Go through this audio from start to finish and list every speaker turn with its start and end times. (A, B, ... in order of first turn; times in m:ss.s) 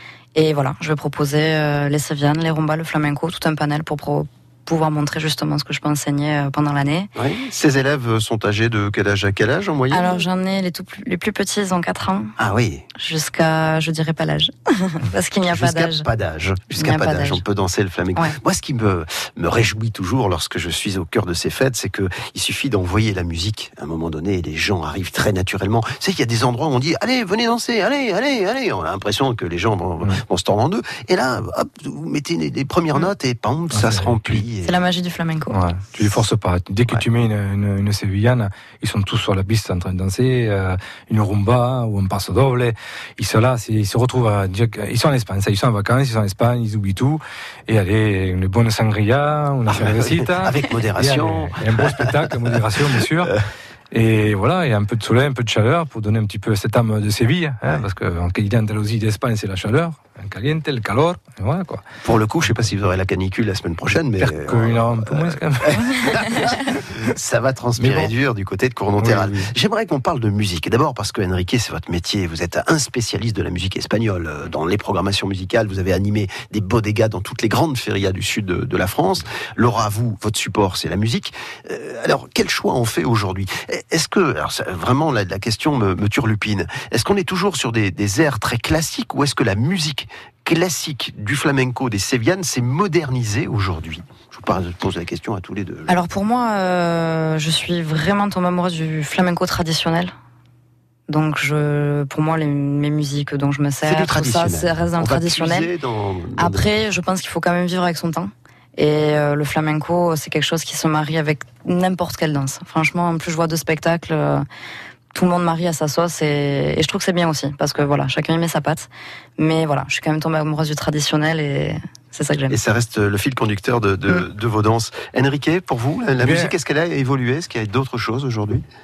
0:00.3-0:07.1 A
0:07.2-0:10.3 B
0:09.9-0:12.3 A
0:12.4-0:12.8 B
0:13.0-0:16.1 A
0:15.5-0:34.7 B
0:16.8-0:17.4 A
0:33.7-0:34.4 C
0:34.6-0:35.6 A
0:35.5-0:53.3 C
0:49.7-0:53.4 B
0:53.9-1:01.8 C
1:02.0-1:36.0 B
1:02.4-1:02.7 C
1:04.2-1:06.4 C
1:07.8-1:08.1 C
1:09.0-1:09.5 C
1:35.9-1:40.1 A
1:41.1-1:45.7 A
1:43.8-1:46.8 B
1:46.4-1:54.4 A
1:55.1-2:02.6 A
2:02.5-2:08.6 B
2:06.2-2:06.5 C